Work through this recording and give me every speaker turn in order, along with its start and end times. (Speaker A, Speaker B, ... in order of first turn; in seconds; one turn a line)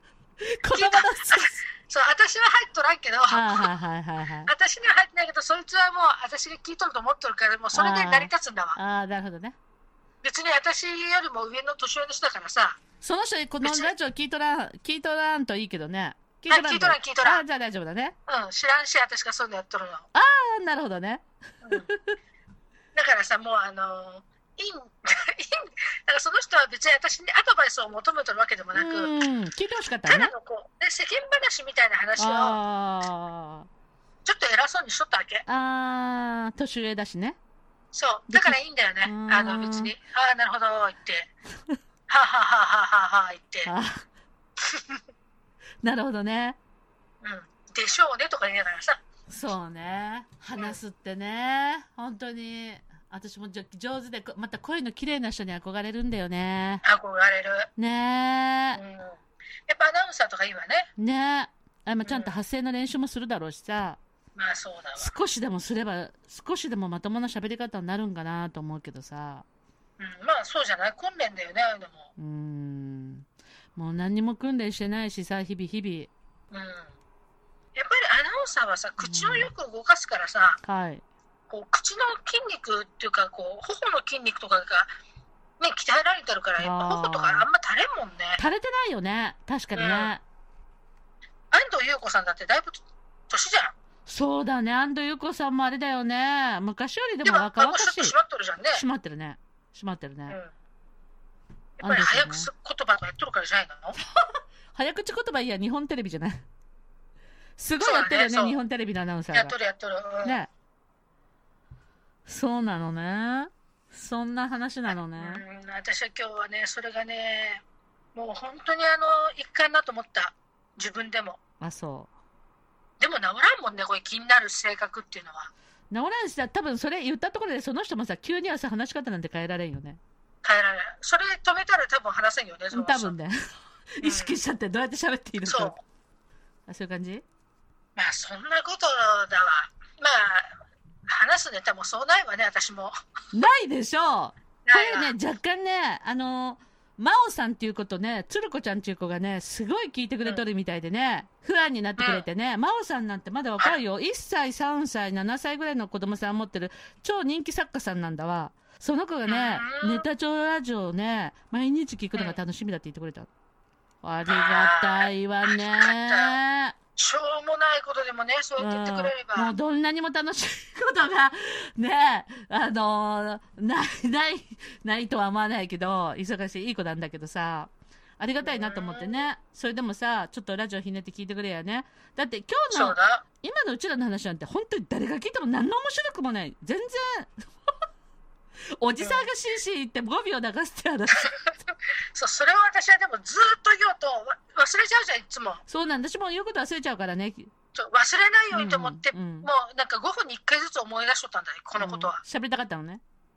Speaker A: 0.4-1.6
Speaker B: 0.7-3.7
Speaker A: 3.3-4.5
Speaker B: 4.5-8.8
Speaker A: 7.7-9.6
Speaker B: 10.2-12.8
Speaker A: 13.0-18.1
Speaker B: 13.6-13.9
Speaker B: 16.5-17.4
Speaker B: 18.3-20.1
Speaker A: 20.1-22.2
Speaker B: 21.6-21.9
Speaker B: 22.9-29.1
Speaker A: 28.7-30.3
Speaker B: 30.1-32.6
Speaker A: 32.2-33.7
Speaker B: 34.2-35.5
Speaker A: 35.5-37.4
Speaker B: 37.9-41.3
Speaker A: 38.3-39.9
Speaker B: 42.1-43.7
Speaker A: 43.7-44.0
Speaker B: 44.7-45.0
Speaker A: 45.8-46.6
Speaker B: 47.2-49.0
Speaker A: 49.3-56.8
Speaker B: 56.8-57.7
Speaker A: 57.8-58.8
Speaker B: 58.7-60.9
Speaker A: 61.0-64.0
Speaker B: 62.0-62.4
Speaker B: 64.3-65.1
Speaker A: 65.0-69.5
Speaker B: 70.0-72.1
Speaker A: 72.2-76.1
Speaker B: 76.5-76.9
Speaker B: 77.8-80.6
Speaker A: 79.0-79.5
Speaker A: 80.6-81.0
Speaker B: 81.5-84.9
Speaker B: 85.6-88.4
Speaker A: 86.6-87.5
Speaker A: 88.4-90.2
Speaker B: 89.8-90.1
Speaker B: 91.5-93.7
Speaker A: 94.1-98.2
Speaker B: 97.2-98.8
Speaker A: 98.7-100.4
Speaker B: 101.8-104.0
Speaker A: 101.8-102.5
Speaker A: 104.7-106.4
Speaker A: 107.6-109.5
Speaker B: 107.8-108.6
Speaker B: 109.3-110.4
Speaker A: 110.2-110.5
Speaker A: 112.3-115.4
Speaker B: 115.1-117.6
Speaker B: 118.2-121.4
Speaker A: 121.6-122.1
Speaker B: 123.0-125.5
Speaker A: 125.9-130.0
Speaker B: 130.4-133.2
Speaker A: 132.7-133.4
Speaker A: 134.0-135.7
Speaker B: 134.0-134.3
Speaker B: 135.4-135.8
Speaker A: 136.7-137.2
Speaker B: 138.0-140.5
Speaker B: 141.1-142.9
Speaker A: 143.3-163.3
Speaker B: 144.7-145.2
Speaker B: 152.0-152.3
Speaker B: 159.3-160.1
Speaker A: 164.0-166.8
Speaker B: 164.3-166.4
Speaker B: 167.0-169.6
Speaker A: 168.6-187.3
Speaker B: 178.4-179.3
Speaker B: 182.7-183.2
Speaker A: 188.8-191.3
Speaker B: 189.0-189.3
Speaker B: 192.1-195.6
Speaker A: 195.7-197.5
Speaker B: 197.8-202.2
Speaker A: 198.5-199.5
Speaker A: 201.8-203.0